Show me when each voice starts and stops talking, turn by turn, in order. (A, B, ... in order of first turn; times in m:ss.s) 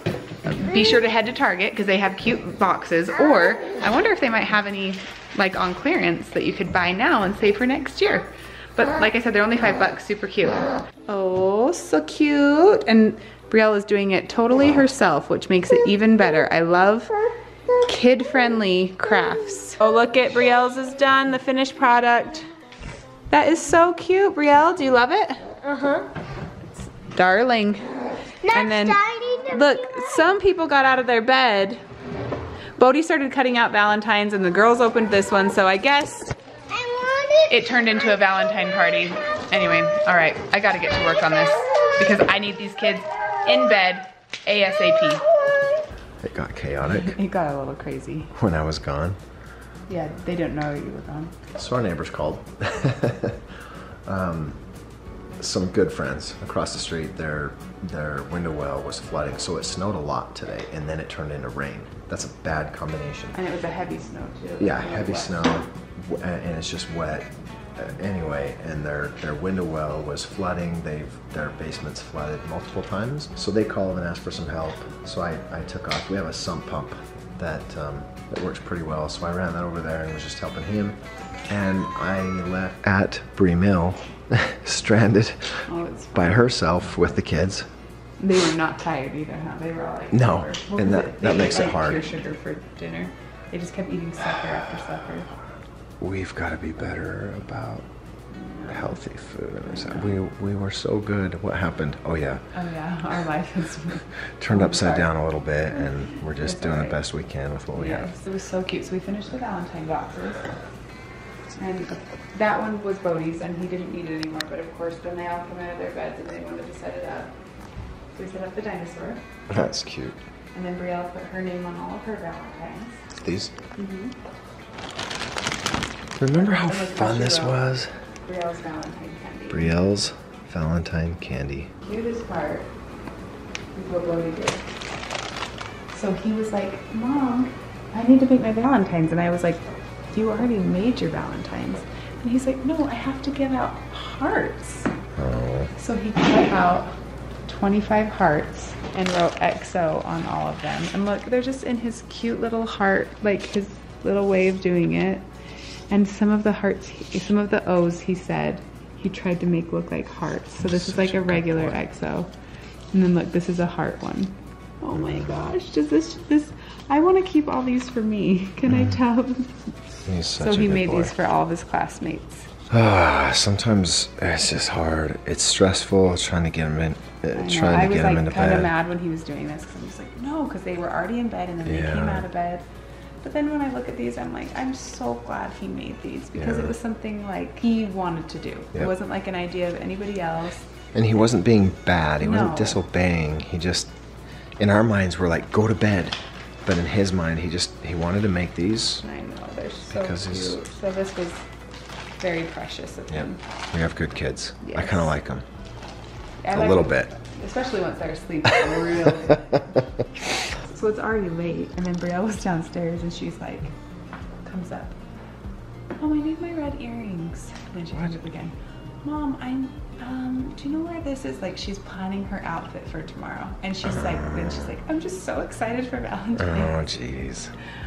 0:00.4-0:17.2 A
0:17.8-0:22.5 A
0:23.3-0:25.4 A
0:25.6-0:26.1 B
0:26.7-0:27.8 A
0:28.4-0:30.1 B
0:28.5-0:31.8 A
0:32.8-0:36.3 A
0:36.7-0:37.5 B
0:37.5-0:45.2 A
0:46.2-0:47.2 C
0:46.8-0:48.3 A
0:48.4-0:49.2 C
0:49.9-0:51.4 A
0:51.6-0:53.4 C
0:54.1-0:54.6 C
0:55.4-1:03.4 C
1:03.3-1:05.6 A
1:04.6-1:21.0 C
1:21.5-1:25.6 C
1:25.7-1:26.5 A
1:26.2-1:27.7 C
1:28.2-1:35.4 A
1:30.1-1:32.1 C
1:36.0-1:37.9 C
1:38.4-1:38.9 A
1:38.7-1:42.4 C
1:39.7-1:40.2 A
1:42.5-1:45.1 A
1:44.4-1:48.1 C
1:45.7-1:47.0 A
1:47.8-1:50.5 A
1:51.6-1:57.3 A
1:58.1-1:59.2 A
1:59.5-2:00.2 C
2:00.5-2:03.0 A
2:03.2-2:03.5 C
2:03.8-2:04.2 A
2:06.2-2:07.9 C
2:06.4-2:07.6 A
2:08.2-2:09.7 A
2:09.5-2:11.7 C
2:11.8-2:12.7 A
2:13.8-2:14.6 A
2:15.9-2:24.9 A
2:25.2-2:25.7 C
2:25.8-2:26.9 A
2:27.5-2:35.2 A
2:35.9-2:42.3 A
2:40.6-2:41.8 C
2:42.9-2:49.5 A
2:44.9-2:45.5 C
2:48.6-2:49.0 C
2:50.1-2:51.1 C
2:50.4-2:52.5 A
2:52.7-2:58.7 C
2:57.4-3:02.6 A
3:01.6-3:02.3 C
3:03.2-3:10.7 A
3:06.4-3:06.8 C
3:10.9-3:13.9 C
3:12.2-3:12.8 A
3:14.6-3:19.0 C
3:19.0-3:21.5 A
3:19.9-3:20.6 C
3:22.2-3:23.4 A
3:23.1-3:25.4 C
3:24.6-3:25.2 A
3:26.4-3:29.7 A
3:26.5-3:27.1 C
3:28.9-3:29.6 C
3:30.5-3:33.7 A
3:34.4-3:35.0 A
3:36.0-3:46.8 A
3:43.8-3:44.7 C
3:46.4-3:47.5 C